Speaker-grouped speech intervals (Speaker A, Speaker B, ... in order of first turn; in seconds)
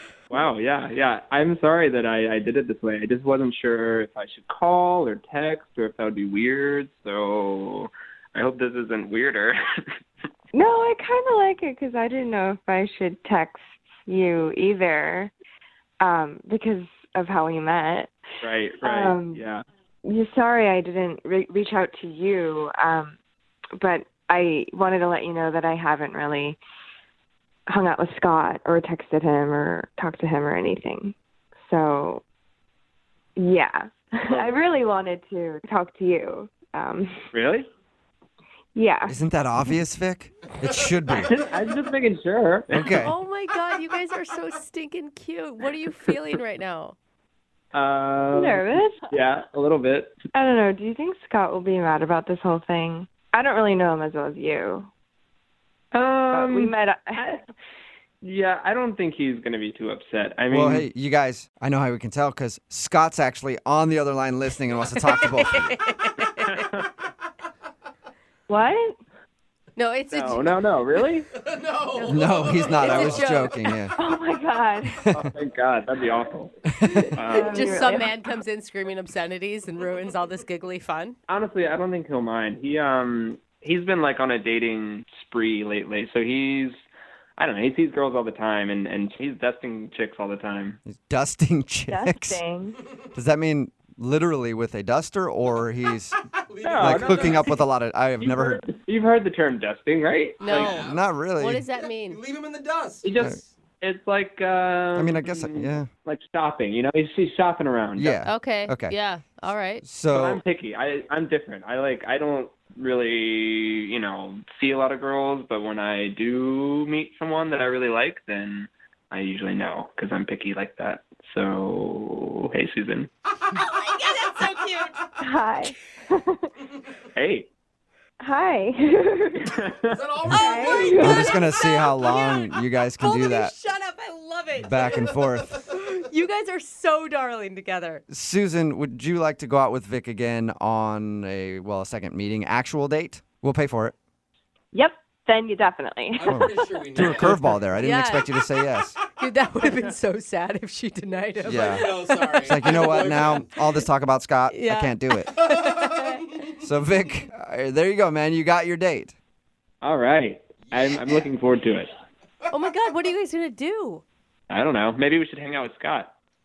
Speaker A: 0.3-9.6, 18.4-19.6, 37.3-37.7, 41.2-43.0, 47.7-50.1, 55.9-57.4, 58.2-60.9, 66.5-66.9, 70.1-71.3, 75.1-76.6, 77.1-77.7, 81.3-86.8, 87.4-90.8, 96.6-97.6, 98.2-100.8, 103.0-108.2, 110.1-123.1, 127.1-127.5, 129.4-130.1, 159.8-161.9, 164.5-166.1
Speaker B: 10.5-15.3, 16.0-18.1, 18.8-19.4, 20.0-23.1, 23.8-26.6, 27.7-31.1, 31.7-32.2, 33.4-37.2, 38.7-39.1, 48.3-49.1, 50.3-54.9, 56.3-57.2, 68.5-69.0, 74.0-75.1, 77.2-78.1, 91.9-92.8, 125.2-126.4, 128.2-129.6, 130.2-131.4, 144.7-147.1
Speaker C: 39.1-41.3, 42.7-43.1, 60.5-65.8, 72.1-73.9, 76.8-77.1, 90.8-92.4, 93.1-96.2, 96.8-98.6, 100.5-101.6, 104.9-105.9, 108.0-109.0, 109.8-110.4, 131.0-133.5, 134.6-135.6, 138.1-143.9, 146.3-149.0, 151.4-155.3, 156.6-159.2
Speaker D: 43.0-47.0, 65.1-66.7, 69.8-70.6, 71.9-73.7, 76.9-81.2, 100.4-100.8, 101.4-102.2, 108.2-109.8, 123.5-124.9, 131.0-138.0, 147.8-148.3, 149.2-152.7, 154.5-156.4, 162.5-164.0
Speaker E: 71.3-73.4, 96.4-97.5, 100.5-101.0, 102.0-103.1, 129.9-131.3, 146.1-147.6, 151.4-153.5, 160.7-161.1